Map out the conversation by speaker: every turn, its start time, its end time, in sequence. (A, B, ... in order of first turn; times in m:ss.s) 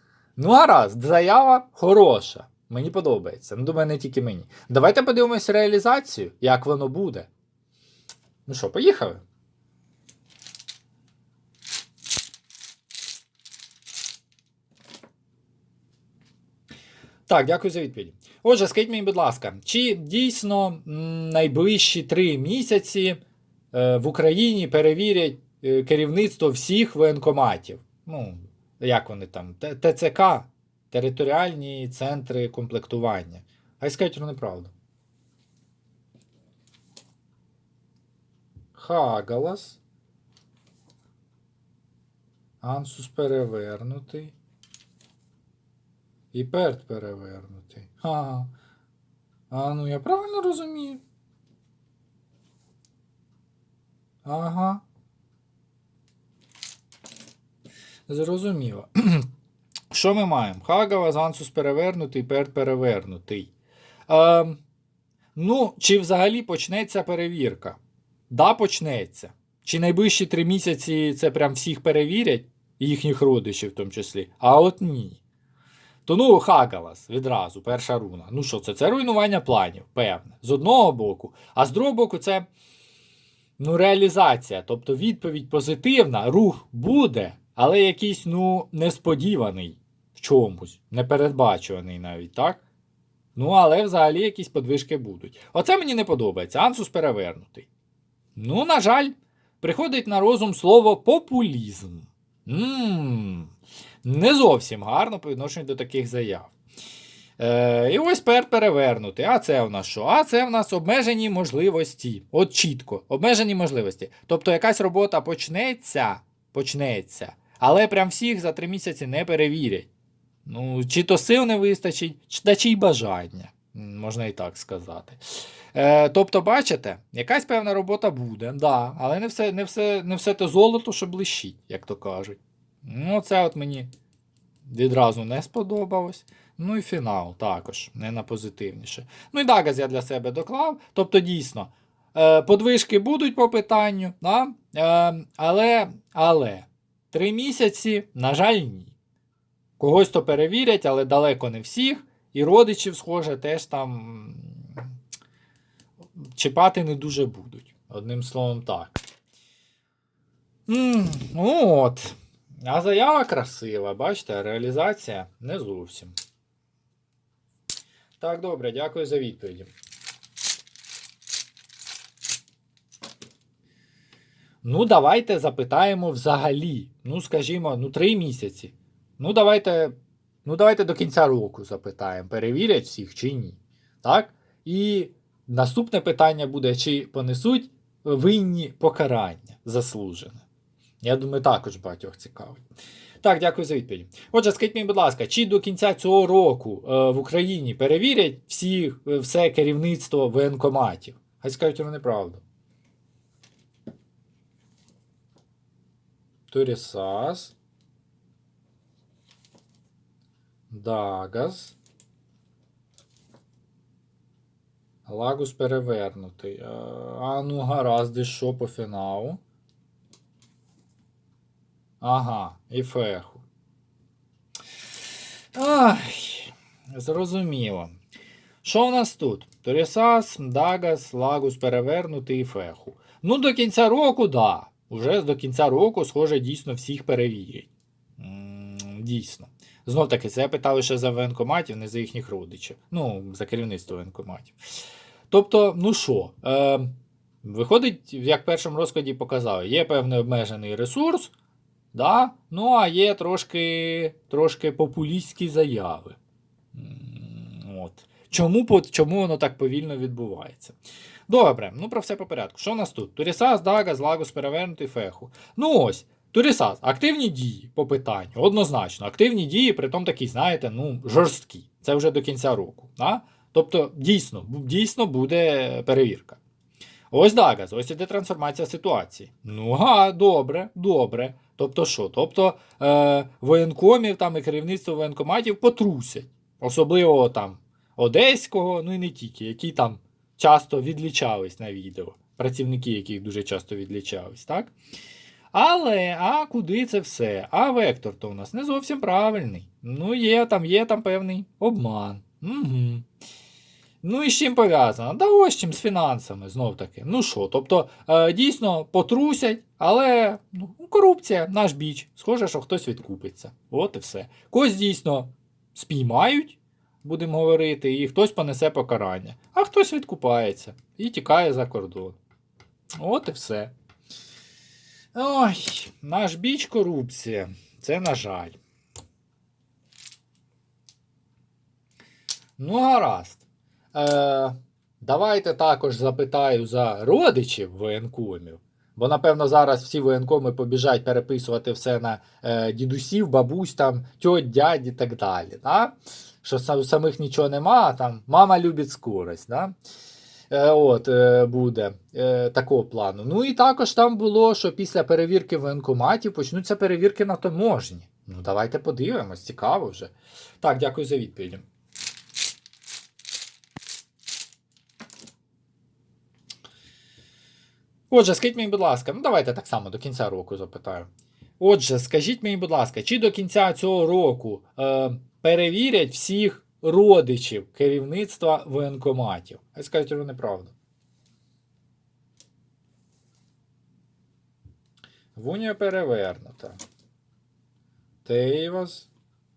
0:00.4-0:07.3 A
0:08.4-0:09.2 A
0:17.3-0:23.2 A
0:23.7-0:34.7 A
0:38.7-0:39.8 A
0:42.6-0:44.3 A
0:46.3-0:48.5 A
0:49.5-0:51.0 A
0:54.2-0:54.8 A
0:58.1-0:59.3 A
0:59.9-1:03.5 A
1:04.1-1:04.6 A
1:05.3-1:07.8 A
1:08.3-1:15.2 A
1:16.0-1:22.5 A
1:23.6-1:32.6 A
1:33.3-1:37.7 A
1:38.3-1:43.5 A
1:44.0-1:46.5 A
1:47.4-1:59.9 A
2:00.4-2:05.2 A
2:05.7-2:13.9 A
2:14.6-2:28.9 A
2:29.8-2:34.8 A
2:36.3-2:39.0 A
2:40.7-2:46.1 A
2:48.2-2:49.7 A
2:54.6-3:10.4 A
3:11.0-3:12.6 A
3:13.2-3:22.4 A
3:26.5-3:27.5 A
3:30.7-3:31.8 A
3:35.0-3:39.4 A
3:42.0-3:43.4 A
3:45.5-3:47.9 A
3:48.6-4:04.6 A
4:05.3-4:11.3 A
4:11.9-4:16.2 A
4:16.7-4:20.8 A
4:21.3-4:36.4 A
4:37.1-4:54.7 A
4:55.5-5:03.1 A
5:04.0-5:22.2 A
5:23.0-5:23.7 A
5:25.1-5:28.6 A
5:32.6-5:49.7 A
5:50.5-6:01.6 A
6:08.1-6:20.7 A
6:25.3-6:26.8 A
6:28.2-6:29.1 A